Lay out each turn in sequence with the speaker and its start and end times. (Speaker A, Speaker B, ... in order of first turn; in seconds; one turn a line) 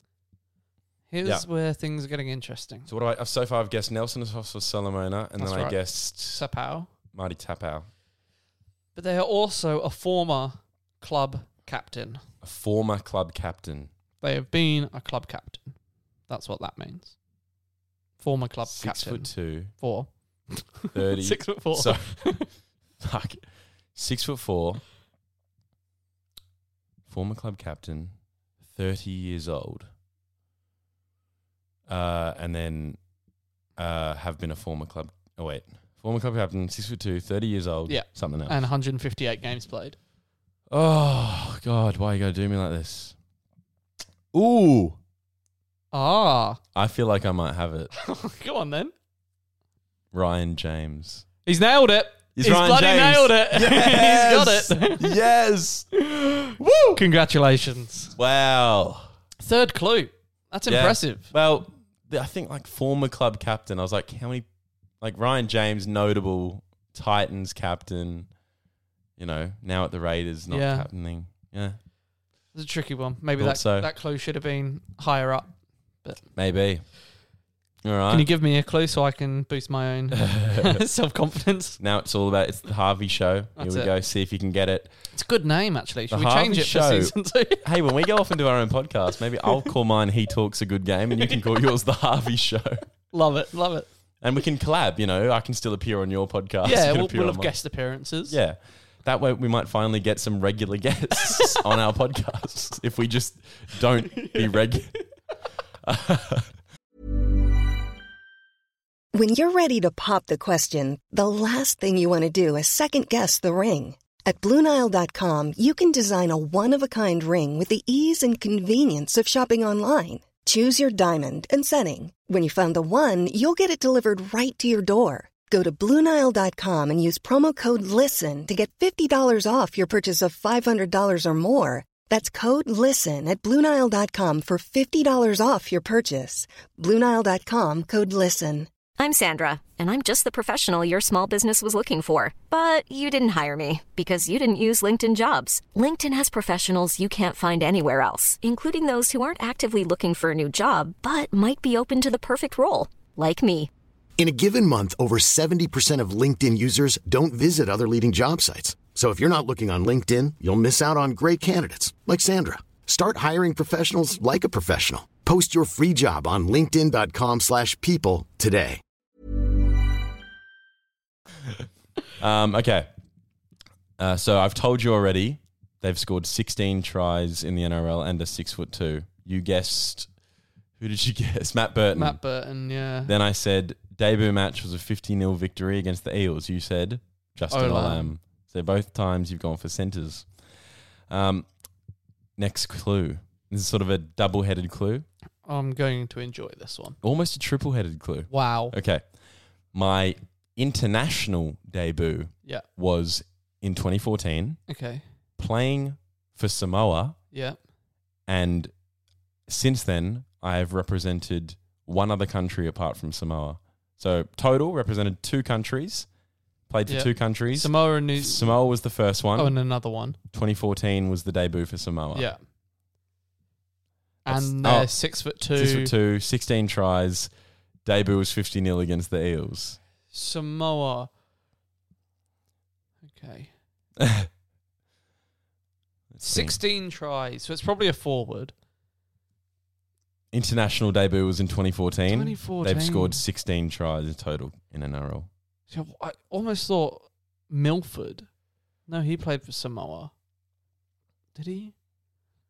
Speaker A: 1.1-2.9
Speaker B: 2.9-6.4
Speaker A: 5.4-6.9
Speaker B: 7.1-7.9
Speaker A: 8.9-12.2
Speaker B: 12.4-13.9
Speaker A: 14.2-15.7
Speaker A: 16.3-17.1
Speaker A: 18.2-22.5
Speaker B: 18.7-19.7
Speaker B: 20.9-22.3
Speaker B: 23.0-23.4
Speaker B: 23.9-24.8
Speaker B: 27.1-28.1
Speaker B: 28.7-29.9
Speaker B: 31.9-33.0
Speaker B: 33.8-38.6
Speaker A: 37.9-40.0
Speaker B: 40.7-43.1
Speaker B: 44.3-45.0
Speaker A: 45.9-46.6
Speaker B: 46.7-47.9
Speaker A: 47.9-48.9
Speaker B: 50.1-51.2
Speaker A: 51.5-55.2
Speaker B: 52.4-55.9
Speaker A: 56.0-58.1
Speaker B: 56.6-57.0
Speaker B: 58.1-59.1
Speaker A: 59.4-61.3
Speaker B: 60.7-64.5
Speaker B: 65.0-68.3
Speaker B: 69.2-71.8
Speaker A: 70.5-70.9
Speaker A: 72.5-75.5
Speaker B: 73.4-73.9
Speaker B: 76.3-76.8
Speaker B: 77.8-78.3
Speaker A: 78.1-81.8
Speaker B: 80.1-80.8
Speaker B: 81.8-84.9
Speaker A: 83.6-83.9
Speaker A: 85.1-87.6
Speaker B: 86.1-92.8
Speaker A: 93.1-93.9
Speaker B: 94.2-97.5
Speaker A: 96.6-98.4
Speaker B: 98.3-104.9
Speaker A: 104.1-104.5
Speaker B: 105.8-106.5
Speaker C: 109.1-138.7
Speaker D: 139.0-153.7
Speaker E: 154.2-168.8
Speaker B: 172.2-172.9
Speaker B: 174.0-180.1
Speaker B: 180.8-182.2
Speaker A: 181.9-183.1
Speaker B: 183.0-190.3
Speaker A: 187.5-188.1
Speaker B: 191.1-191.5
Speaker B: 192.4-195.1
Speaker A: 195.4-197.0
Speaker B: 197.0-199.0
Speaker A: 198.3-198.7
Speaker B: 199.7-204.6
Speaker A: 204.7-205.0
Speaker B: 205.4-207.2
Speaker A: 207.3-207.6
Speaker B: 208.3-208.7
Speaker B: 209.5-216.1
Speaker B: 216.7-219.6
Speaker A: 216.9-218.5
Speaker A: 219.3-220.2
Speaker B: 220.3-222.3
Speaker A: 222.1-222.4
Speaker A: 224.2-225.9
Speaker B: 224.3-224.9
Speaker B: 225.5-227.3
Speaker B: 227.8-229.8
Speaker A: 230.1-231.1
Speaker A: 233.1-233.5
Speaker B: 234.0-234.3
Speaker B: 236.1-236.6
Speaker A: 236.2-238.5
Speaker B: 240.3-245.3
Speaker A: 242.1-243.2
Speaker A: 245.7-248.3
Speaker A: 248.9-250.1
Speaker A: 251.3-251.7